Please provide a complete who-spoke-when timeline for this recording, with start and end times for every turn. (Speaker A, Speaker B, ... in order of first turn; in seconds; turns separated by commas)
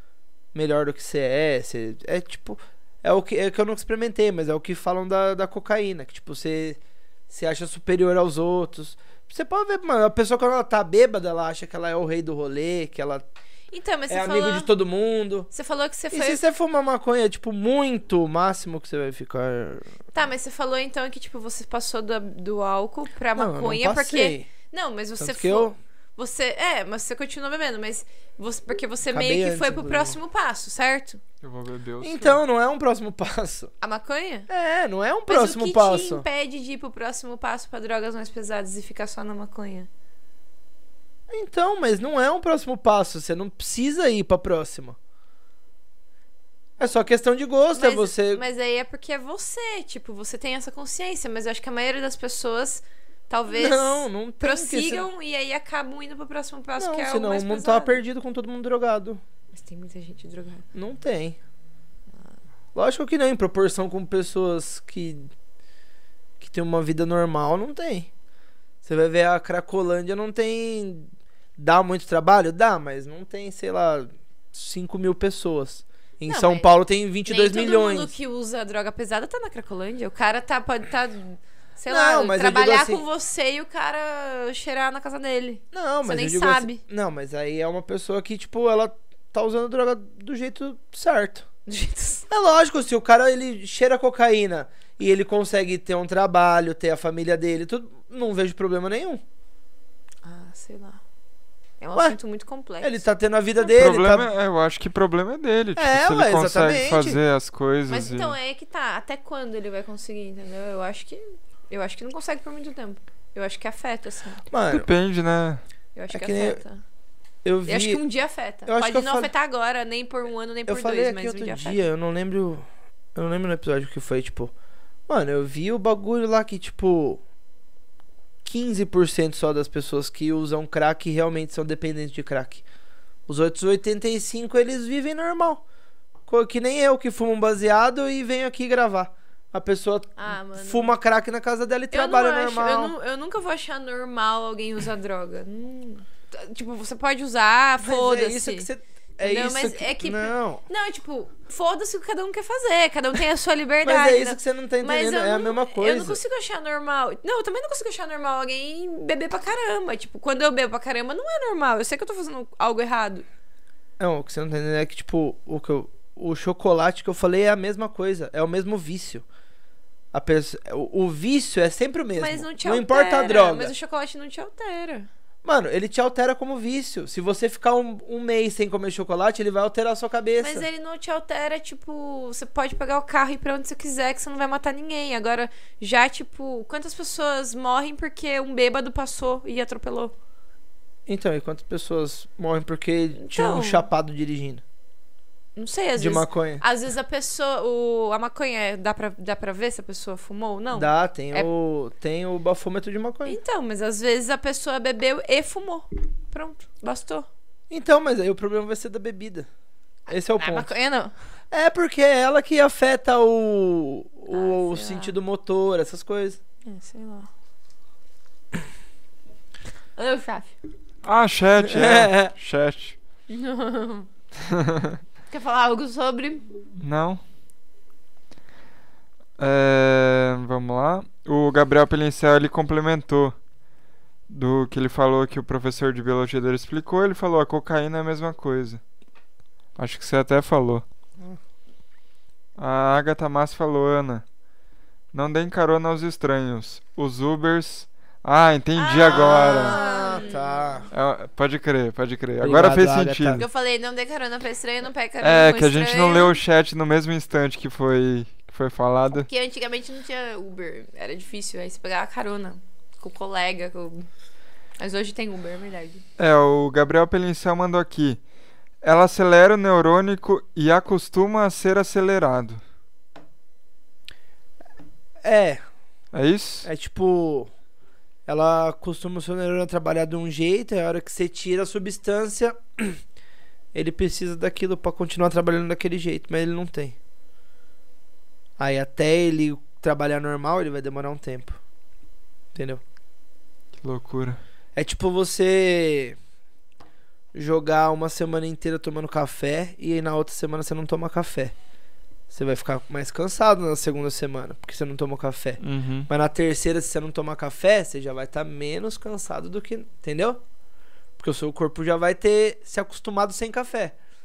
Speaker A: 0.5-13.3, Speaker B: 13.7-14.7, Speaker A: 14.1-15.5, Speaker B: 15.5-16.4, Speaker A: 16.1-19.9, Speaker B: 20.1-31.2, Speaker A: 23.4-24.5, Speaker A: 25.2-25.8, Speaker A: 29.1-30.2, Speaker C: 31.4-32.4, Speaker A: 32.0-33.7, Speaker B: 33.8-34.5, Speaker A: 34.5-36.2, Speaker B: 35.3-39.9, Speaker A: 41.3-45.0, Speaker A: 46.8-48.4, Speaker B: 47.7-58.0, Speaker A: 53.5-55.1, Speaker A: 56.8-59.2, Speaker B: 59.5-60.6, Speaker A: 60.7-61.4, Speaker A: 62.7-65.3, Speaker A: 66.4-68.1, Speaker A: 68.8-78.1, Speaker B: 76.3-76.7, Speaker B: 77.2-86.8, Speaker A: 81.9-83.0, Speaker A: 85.7-91.5, Speaker B: 91.7-92.3, Speaker A: 92.3-99.2, Speaker B: 100.2-101.0, Speaker B: 101.8-103.0, Speaker A: 102.8-104.3, Speaker C: 103.6-108.3, Speaker A: 105.8-107.2, Speaker B: 107.9-114.4, Speaker A: 114.5-114.9, Speaker C: 114.7-115.6, Speaker B: 116.0-116.8, Speaker A: 116.1-116.6, Speaker A: 117.4-118.0, Speaker B: 117.7-121.8, Speaker A: 118.7-119.3, Speaker A: 120.7-124.5, Speaker A: 125.1-127.2, Speaker A: 128.4-132.6, Speaker A: 133.3-135.6, Speaker A: 136.3-142.9, Speaker B: 140.2-140.9, Speaker B: 141.9-148.7, Speaker A: 147.8-150.6, Speaker B: 149.2-163.2, Speaker A: 153.8-156.2, Speaker A: 164.0-169.2, Speaker A: 170.1-173.7, Speaker B: 172.2-175.1, Speaker A: 175.4-180.7, Speaker B: 180.4-190.1, Speaker A: 191.1-194.6, Speaker B: 193.2-193.8, Speaker B: 195.6-201.5, Speaker A: 196.0-196.6, Speaker A: 200.7-203.4, Speaker B: 203.2-207.3, Speaker A: 207.7-209.5, Speaker A: 210.1-210.7, Speaker B: 210.1-211.1, Speaker A: 211.5-216.4, Speaker B: 214.3-215.1, Speaker B: 216.6-217.3, Speaker B: 220.0-220.5, Speaker C: 221.0-222.9, Speaker A: 221.6-222.3, Speaker B: 223.3-224.1, Speaker C: 224.5-225.0, Speaker B: 225.3-226.5, Speaker C: 226.8-227.2, Speaker C: 229.4-233.3, Speaker C: 234.3-238.8, Speaker C: 239.8-240.8, Speaker C: 242.6-244.2, Speaker C: 245.1-249.8, Speaker B: 248.8-250.8, Speaker A: 249.1-250.9, Speaker C: 250.9-253.4, Speaker A: 252.4-253.4, Speaker B: 253.4-256.4, Speaker C: 255.2-259.3, Speaker B: 259.1-264.1, Speaker B: 264.8-266.0, Speaker C: 266.2-268.2, Speaker C: 268.8-272.6, Speaker A: 275.2-275.6, Speaker C: 276.1-276.7, Speaker A: 276.6-277.5, Speaker A: 278.3-283.0, Speaker A: 283.7-286.9, Speaker A: 288.6-291.6, Speaker A: 292.5-292.8, Speaker C: 293.8-294.4, Speaker A: 294.8-296.2, Speaker A: 297.3-301.5, Speaker A: 302.3-310.4, Speaker C: 305.6-306.1, Speaker A: 311.2-313.9